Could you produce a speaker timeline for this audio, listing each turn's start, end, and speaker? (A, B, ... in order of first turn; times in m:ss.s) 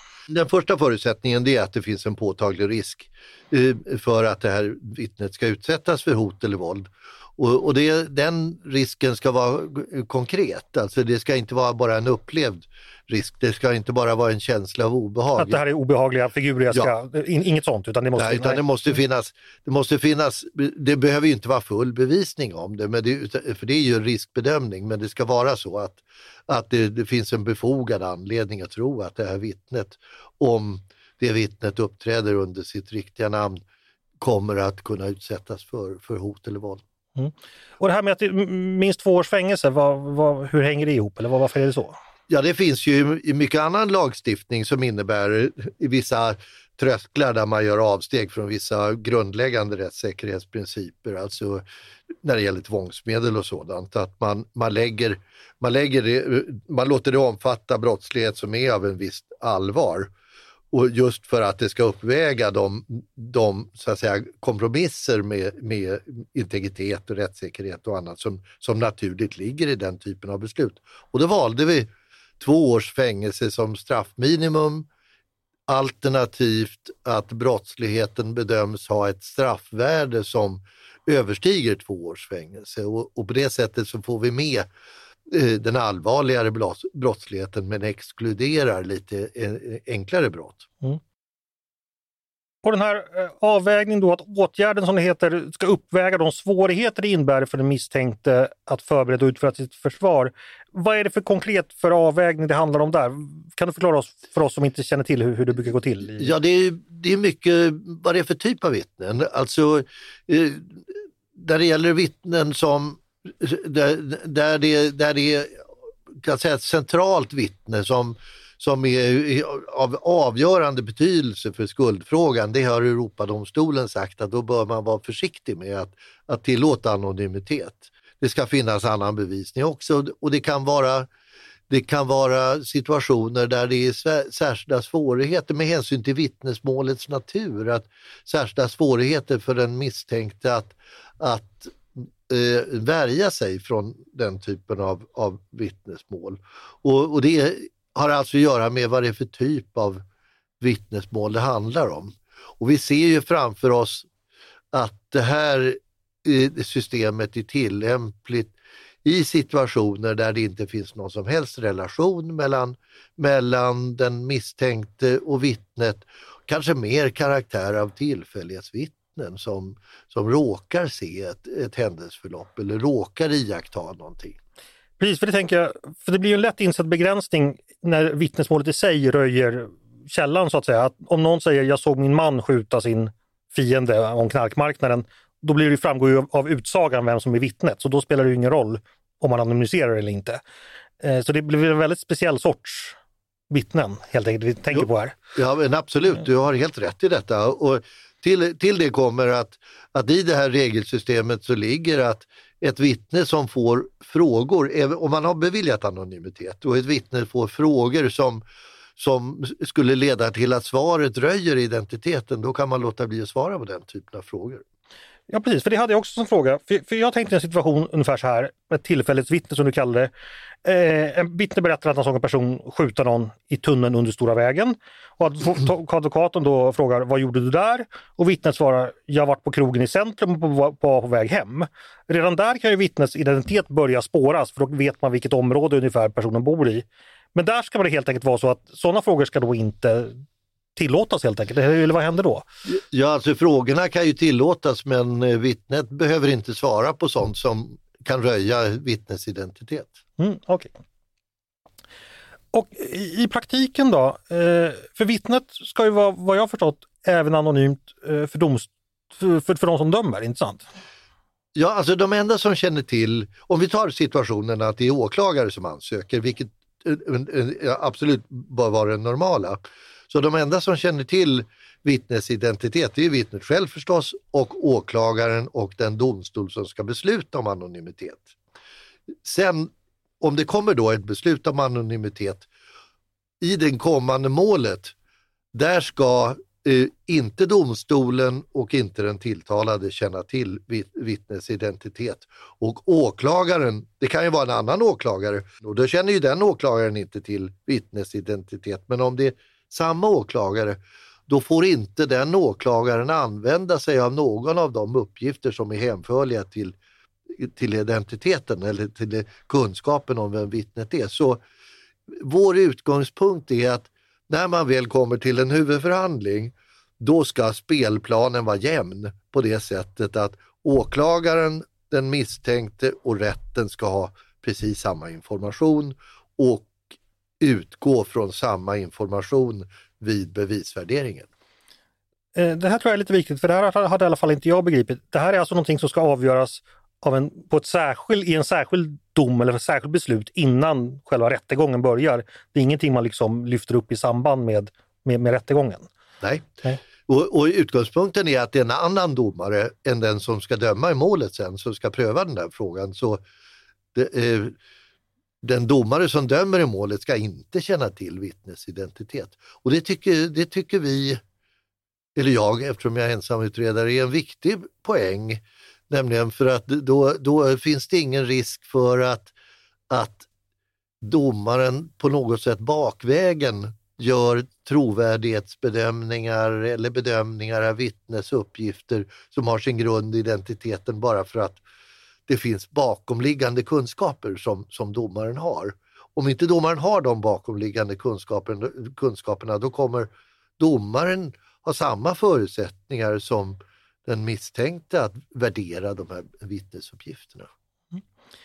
0:00.3-0:15.6 A
0:15.4-0:18.6 B
0:18.2-0:33.6 A
0:34.2-0:36.8 A
0:37.2-0:42.0 B
0:42.3-0:51.6 A
0:52.2-1:00.1 A
1:00.7-1:14.9 A
1:15.7-1:24.7 A
1:25.3-1:30.7 A
1:32.6-1:46.3 B
1:46.2-1:55.6 A
1:56.2-2:11.1 A
2:11.7-2:30.0 A
2:30.6-2:34.1 A
2:34.7-2:54.4 A
2:55.0-3:10.4 B
3:11.0-3:13.0 B
3:13.5-3:15.2 B
3:14.7-3:28.4 A
3:29.0-3:34.6 A
3:35.3-3:40.1 B
3:40.6-4:00.2 B
4:00.8-4:02.4 B
4:02.6-4:10.0 A
4:10.2-4:10.7 B
4:12.5-4:20.6 B
4:21.5-4:38.3 A
4:39.2-4:42.5 A
4:43.4-4:44.9 A
4:45.5-5:06.8 A
5:07.3-5:11.4 A
5:12.1-5:26.8 A
5:27.4-5:31.3 A
5:32.3-5:45.9 B
5:46.2-5:53.2 A
5:53.9-5:54.6 A
5:55.4-6:01.2 A
6:02.1-6:09.3 A
6:09.9-6:10.3 A
6:11.0-6:21.6 A
6:22.3-6:37.5 A